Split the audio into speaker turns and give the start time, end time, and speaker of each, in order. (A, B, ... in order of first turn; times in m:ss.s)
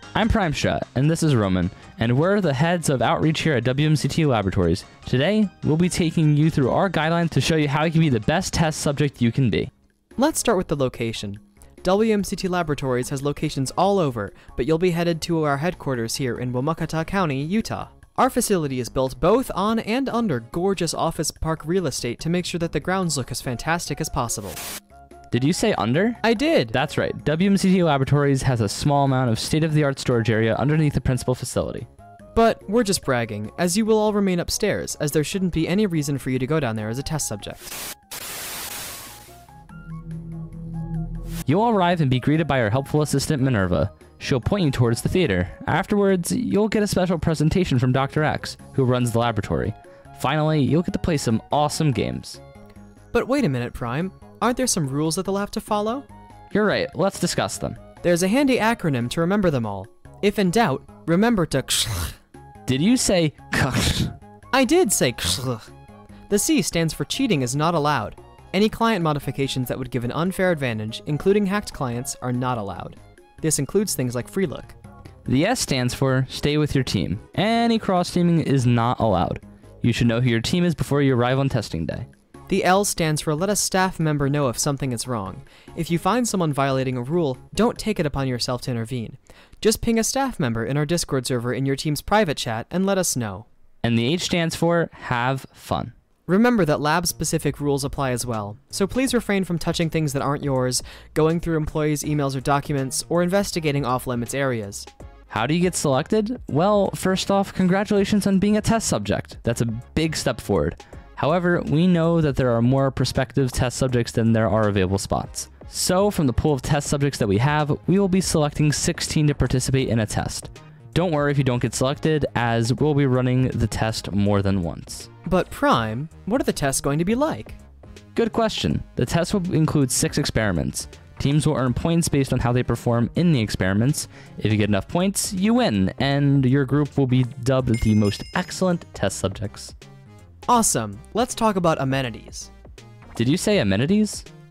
0:00.2-0:09.7 A
0:10.2-0:24.6 B
0:25.3-0:31.9 A
0:26.2-0:26.8 B
0:32.4-0:37.8 B
0:41.5-0:52.4 A
0:53.1-0:56.1 B
0:56.5-0:57.8 A
0:58.0-1:02.2 B
1:02.7-1:04.2 A
1:04.5-1:05.7 B
1:06.3-1:14.8 B
1:15.3-1:22.1 A
1:22.5-1:33.5 B
1:33.8-1:35.9 A
1:36.3-1:44.9 B
1:45.3-2:05.1 A
2:05.2-2:07.6 B
2:08.2-2:19.7 A
2:20.5-2:22.5 B
2:23.2-2:24.3 A